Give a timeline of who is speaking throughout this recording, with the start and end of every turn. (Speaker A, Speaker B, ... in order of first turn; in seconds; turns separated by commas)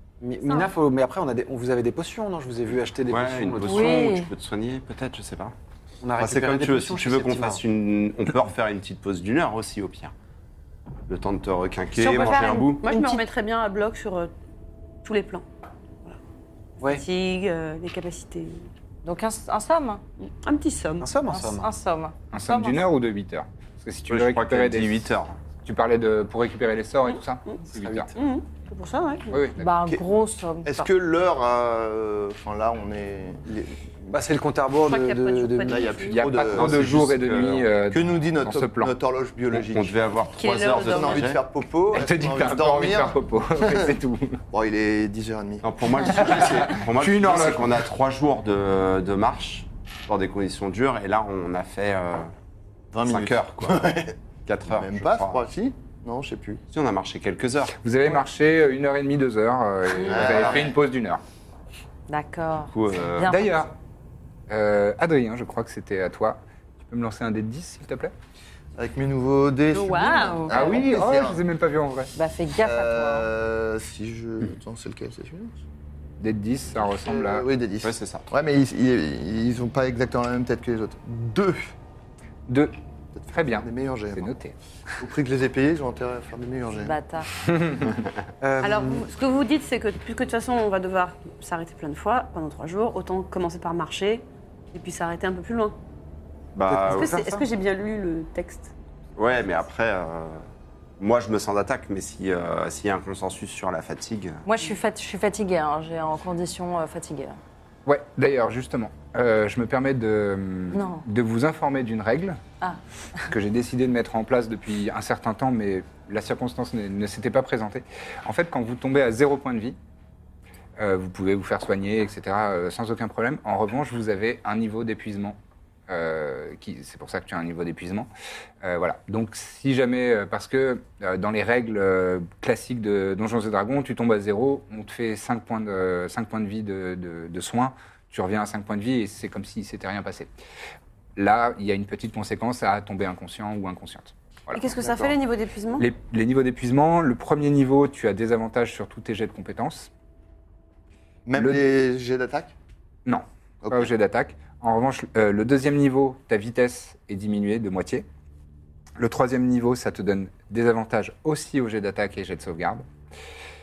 Speaker A: 0.2-4.1, Speaker B: 0.4-0.7, Speaker C: 3.1-5.5, Speaker D: 3.6-4.3, Speaker A: 6.0-7.6, Speaker C: 6.2-10.1, Speaker C: 11.1-12.8, Speaker B: 12.0-14.3, Speaker D: 12.0-13.2, Speaker B: 15.0-15.4, Speaker B: 16.8-18.7, Speaker D: 19.0-20.0, Speaker B: 20.2-21.1, Speaker A: 21.0-21.7, Speaker D: 21.3-22.8, Speaker E: 22.3-28.1, Speaker C: 24.1-25.4, Speaker B: 28.1-29.4, Speaker E: 29.3-29.6, Speaker D: 29.6-30.9, Speaker F: 30.6-34.2, Speaker A: 34.1-35.9, Speaker B: 34.8-36.2, Speaker F: 35.6-36.8, Speaker E: 36.1-38.9, Speaker C: 36.4-37.7, Speaker F: 37.9-40.0, Speaker C: 39.5-41.4, Speaker B: 40.3-41.4, Speaker F: 40.8-43.9, Speaker E: 41.9-44.4, Speaker F: 44.5-46.3, Speaker C: 45.6-52.3, Speaker E: 46.0-47.9, Speaker F: 52.9-54.1, Speaker C: 53.0-55.5, Speaker F: 54.7-56.6, Speaker C: 56.7-57.8, Speaker E: 57.8-61.2, Speaker F: 59.9-60.7, Speaker C: 60.0-60.7, Speaker D: 62.1-63.6, Speaker C: 62.7-63.3, Speaker E: 63.2-63.8, Speaker E: 64.5-68.1, Speaker F: 68.8-71.4, Speaker B: 69.7-70.7, Speaker E: 70.5-72.1, Speaker D: 72.1-73.3, Speaker F: 72.6-75.6, Speaker E: 76.2-77.5, Speaker F: 76.8-81.7, Speaker C: 77.8-78.3, Speaker E: 82.5-82.7, Speaker F: 83.1-84.3, Speaker E: 83.3-84.6, Speaker F: 85.0-87.0, Speaker D: 86.8-87.3, Speaker E: 87.5-87.9, Speaker A: 88.4-89.0, Speaker B: 88.6-95.8, Speaker C: 96.5-97.1, Speaker A: 96.7-97.5, Speaker B: 96.9-98.7, Speaker C: 99.2-100.5, Speaker C: 101.0-104.5, Speaker D: 104.5-107.4, Speaker E: 107.8-112.4, Speaker D: 110.7-111.0, Speaker E: 113.3-119.8, Speaker E: 120.8-125.4, Speaker E: 125.9-128.1, Speaker E: 128.6-140.3, Speaker E: 141.2-145.1, Speaker B: 144.5-145.9, Speaker E: 145.8-149.9, Speaker F: 151.3-152.5, Speaker E: 151.3-151.6, Speaker E: 153.1-158.1, Speaker F: 153.6-153.9, Speaker E: 159.0-162.9